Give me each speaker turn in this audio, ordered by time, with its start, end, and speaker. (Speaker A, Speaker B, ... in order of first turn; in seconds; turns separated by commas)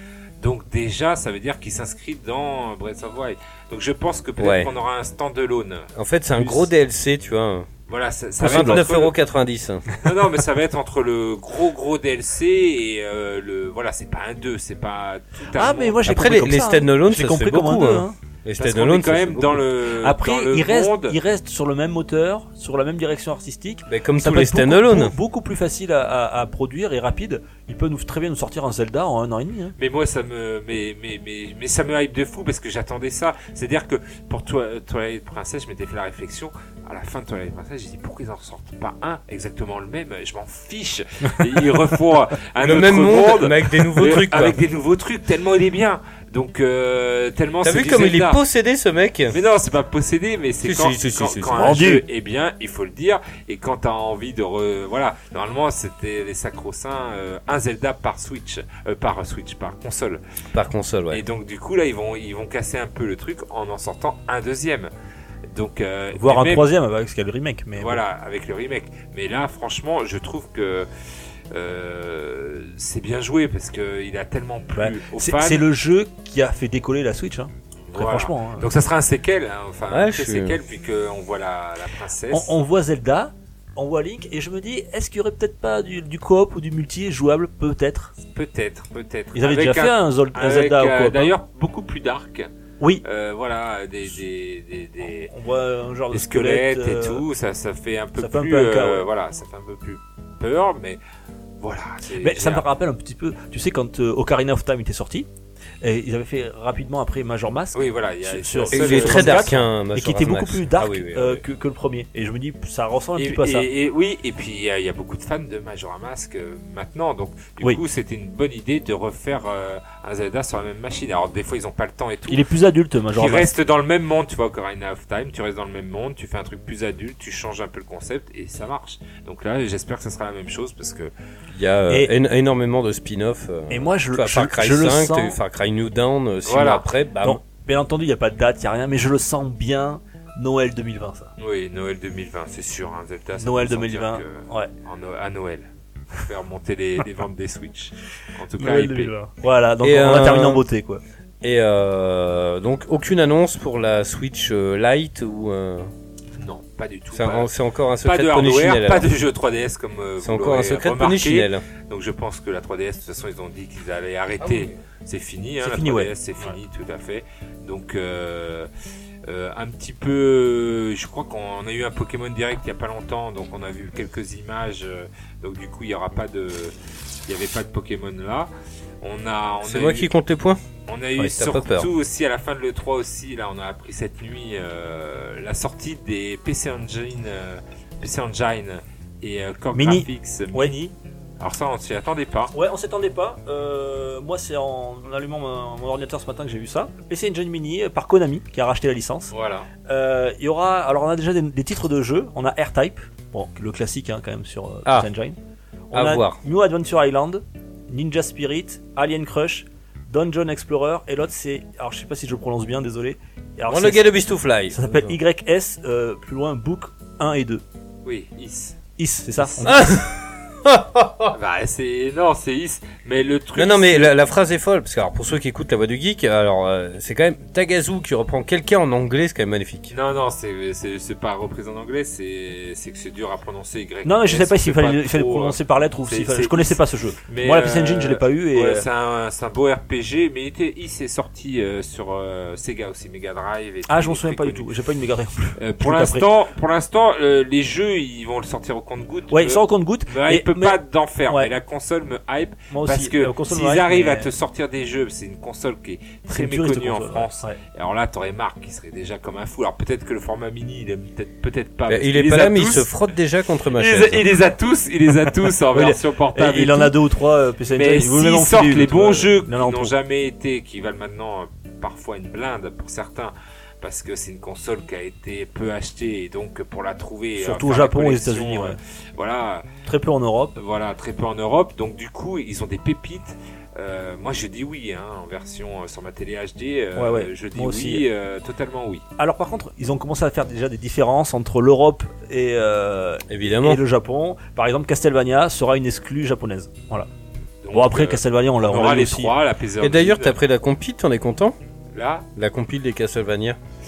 Speaker A: 0.4-6.7, Speaker B: 4.4-4.7, Speaker B: 6.0-7.7, Speaker A: 7.9-9.2, Speaker C: 8.4-8.9, Speaker B: 8.4-9.9, Speaker A: 10.0-16.1, Speaker C: 15.6-18.2, Speaker B: 16.1-19.7, Speaker A: 18.6-21.2, Speaker C: 20.0-29.8, Speaker B: 23.9-25.1, Speaker A: 29.8-48.4, Speaker B: 42.6-44.6, Speaker B: 47.6-49.4, Speaker A: 49.3-60.2, Speaker B: 50.6-51.7, Speaker C: 51.5-52.0, Speaker B: 60.5-61.2, Speaker A: 61.1-64.9, Speaker A: 65.5-66.7, Speaker C: 66.1-68.0, Speaker A: 67.8-70.9, Speaker A: 71.5-75.7, Speaker C: 74.8-78.7, Speaker A: 77.9-82.6, Speaker B: 79.9-80.6, Speaker C: 82.3-88.1, Speaker A: 88.3-92.5, Speaker C: 89.3-91.3, Speaker A: 93.0-95.3, Speaker C: 95.3-97.2, Speaker A: 96.1-101.0, Speaker C: 98.2-99.1, Speaker A: 101.6-102.7, Speaker C: 102.2-105.3, Speaker C: 105.8-113.7, Speaker A: 107.7-109.5, Speaker B: 108.7-111.4, Speaker A: 113.2-122.4, Speaker C: 122.3-123.5, Speaker A: 123.1-131.1, Speaker B: 131.5-137.4, Speaker C: 133.7-135.4, Speaker A: 136.4-136.9, Speaker C: 137.2-141.3, Speaker A: 141.4-149.1, Speaker C: 143.4-144.7, Speaker C: 148.6-151.0, Speaker B: 149.8-150.6, Speaker B: 151.4-155.9, Speaker A: 156.4-157.5, Speaker B: 157.1-159.1, Speaker A: 158.0-168.7, Speaker B: 160.2-161.6, Speaker B: 164.4-164.7, Speaker C: 165.6-166.5, Speaker A: 169.3-176.8, Speaker A: 177.3-178.5, Speaker A: 179.0-180.1, Speaker B: 179.6-180.6, Speaker A: 180.9-190.8, Speaker B: 181.2-181.9, Speaker C: 189.7-190.9, Speaker A: 191.4-192.5, Speaker C: 192.5-199.3, Speaker A: 199.3-199.7, Speaker C: 199.9-205.4, Speaker C: 205.9-214.1, Speaker B: 205.9-206.4, Speaker B: 213.7-215.2, Speaker C: 214.7-217.6, Speaker A: 218.1-218.8, Speaker C: 219.0-220.0, Speaker B: 219.6-221.3, Speaker A: 221.3-224.1, Speaker B: 223.6-229.9, Speaker A: 229.9-244.7, Speaker C: 234.1-238.9, Speaker C: 243.9-246.3, Speaker A: 245.6-263.0, Speaker C: 249.3-250.8, Speaker C: 252.7-254.3, Speaker C: 256.3-257.6, Speaker B: 261.9-264.4, Speaker A: 263.7-267.0, Speaker C: 265.7-269.9, Speaker A: 267.7-279.7, Speaker C: 277.4-278.8, Speaker C: 279.9-280.6, Speaker A: 280.6-289.0, Speaker C: 287.0-288.1, Speaker C: 289.2-297.1, Speaker B: 293.3-293.8, Speaker A: 297.6-300.4, Speaker C: 297.7-299.3, Speaker B: 299.8-301.6, Speaker A: 301.9-302.3, Speaker B: 302.4-303.6